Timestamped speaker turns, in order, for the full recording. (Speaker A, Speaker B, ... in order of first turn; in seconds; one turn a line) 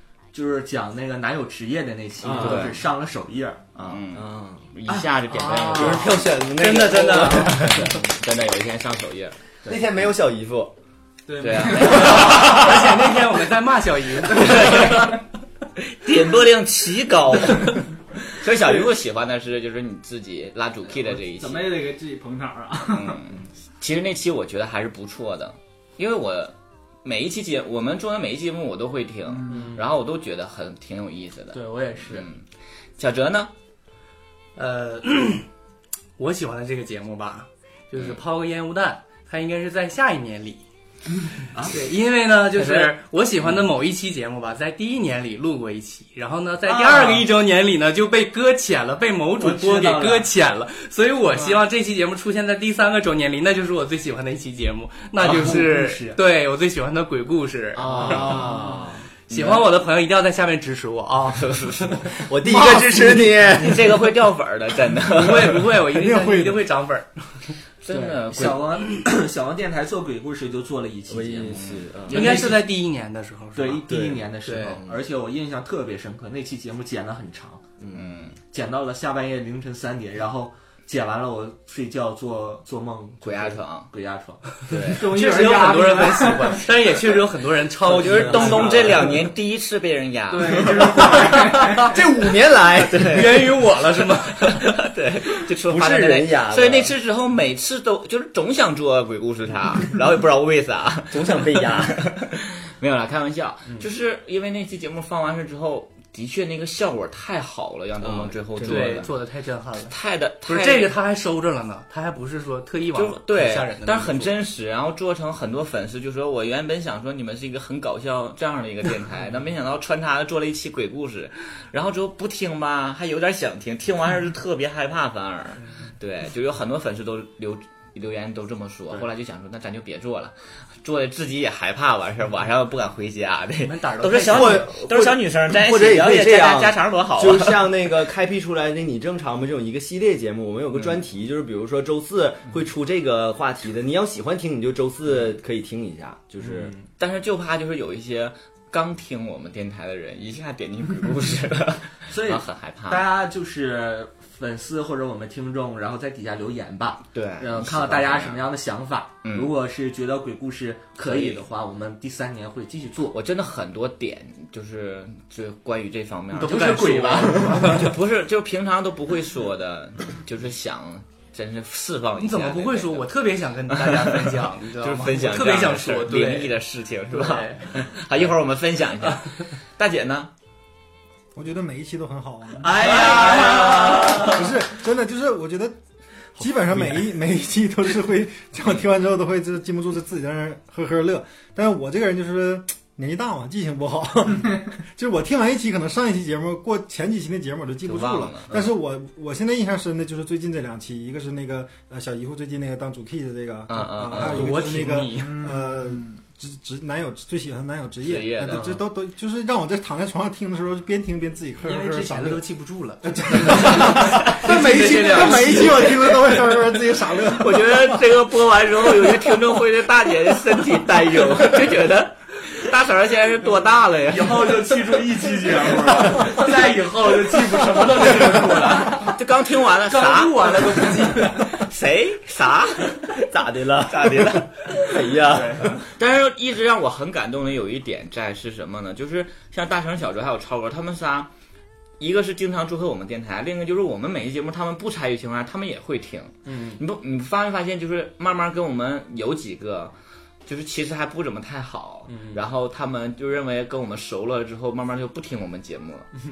Speaker A: 0.3-3.6
Speaker B: 2.3-2.6
Speaker C: 2.3-2.8
Speaker C: 3.8-9.3
Speaker B: 4.1-4.7
Speaker B: 5.7-7.7
Speaker B: 9.7-10.7
Speaker D: 11.3-12.5
Speaker C: 11.4-12.8
Speaker E: 11.9-15.2
Speaker C: 14.4-15.1
Speaker C: 15.9-17.8
Speaker C: 18.4-21.7
Speaker D: 20.9-23.2
Speaker C: 22.9-32.4
Speaker D: 29.3-29.7
Speaker A: 29.5-29.9
Speaker A: 31.5-32.3
Speaker C: 33.0-33.5
Speaker E: 34.6-35.5
Speaker E: 36.2-40.6
Speaker C: 38.0-38.2
Speaker A: 41.5-41.9
Speaker E: 41.6-58.5
Speaker A: 46.7-47.3
Speaker A: 49.4-50.3
Speaker A: 55.2-56.2
Speaker C: 57.8-58.8
Speaker B: 58.0-58.4
Speaker C: 59.3-59.7
Speaker E: 59.3-62.0
Speaker C: 61.3-62.1
Speaker B: 62.3-63.8
Speaker F: 62.5-63.1
Speaker C: 63.5-65.7
Speaker E: 65.1-67.3
Speaker F: 65.9-66.7
Speaker C: 67.8-68.6
Speaker A: 67.9-71.7
Speaker B: 71.1-72.3
Speaker C: 71.6-72.6
Speaker E: 72.1-74.8
Speaker A: 73.5-77.6
Speaker B: 77.8-78.1
Speaker C: 77.9-78.4
Speaker A: 78.5-85.0
Speaker C: 83.2-83.9
Speaker C: 84.7-85.0
Speaker E: 84.9-89.3
Speaker D: 85.0-86.7
Speaker C: 87.9-90.7
Speaker A: 88.1-88.5
Speaker E: 90.3-91.7
Speaker B: 91.9-93.3
Speaker C: 92.9-109.1
Speaker E: 93.0-94.6
Speaker B: 95.7-96.9
Speaker B: 101.1-102.0
Speaker B: 108.0-108.7
Speaker E: 108.6-114.4
Speaker C: 109.9-110.9
Speaker C: 112.9-137.9
Speaker E: 133.6-134.8
Speaker B: 134.3-146.7
Speaker C: 140.7-141.0
Speaker A: 146.4-146.9
Speaker C: 147.0-153.1
Speaker A: 152.1-163.2
Speaker C: 157.1-158.5
Speaker C: 159.2-159.5
Speaker C: 161.0-161.4
Speaker C: 163.1-173.1
Speaker E: 166.4-167.9
Speaker A: 166.4-167.9
Speaker E: 172.2-177.8
Speaker C: 173.7-180.3
Speaker F: 181.3-185.8
Speaker A: 182.6-184.3
Speaker F: 186.4-212.4
Speaker C: 197.8-198.5
Speaker C: 203.7-204.5
Speaker E: 204.1-205.6
Speaker C: 208.0-208.7
Speaker A: 208.5-208.8
Speaker E: 211.6-216.6
Speaker F: 213.0-218.0
Speaker C: 217.3-224.7
Speaker A: 224.1-229.1
Speaker C: 229.0-235.2
Speaker E: 229.9-231.2
Speaker B: 233.3-235.6
Speaker A: 235.3-235.8
Speaker C: 235.8-241.3
Speaker C: 242.0-249.9
Speaker A: 246.4-246.8
Speaker C: 250.5-256.1
Speaker A: 252.1-252.4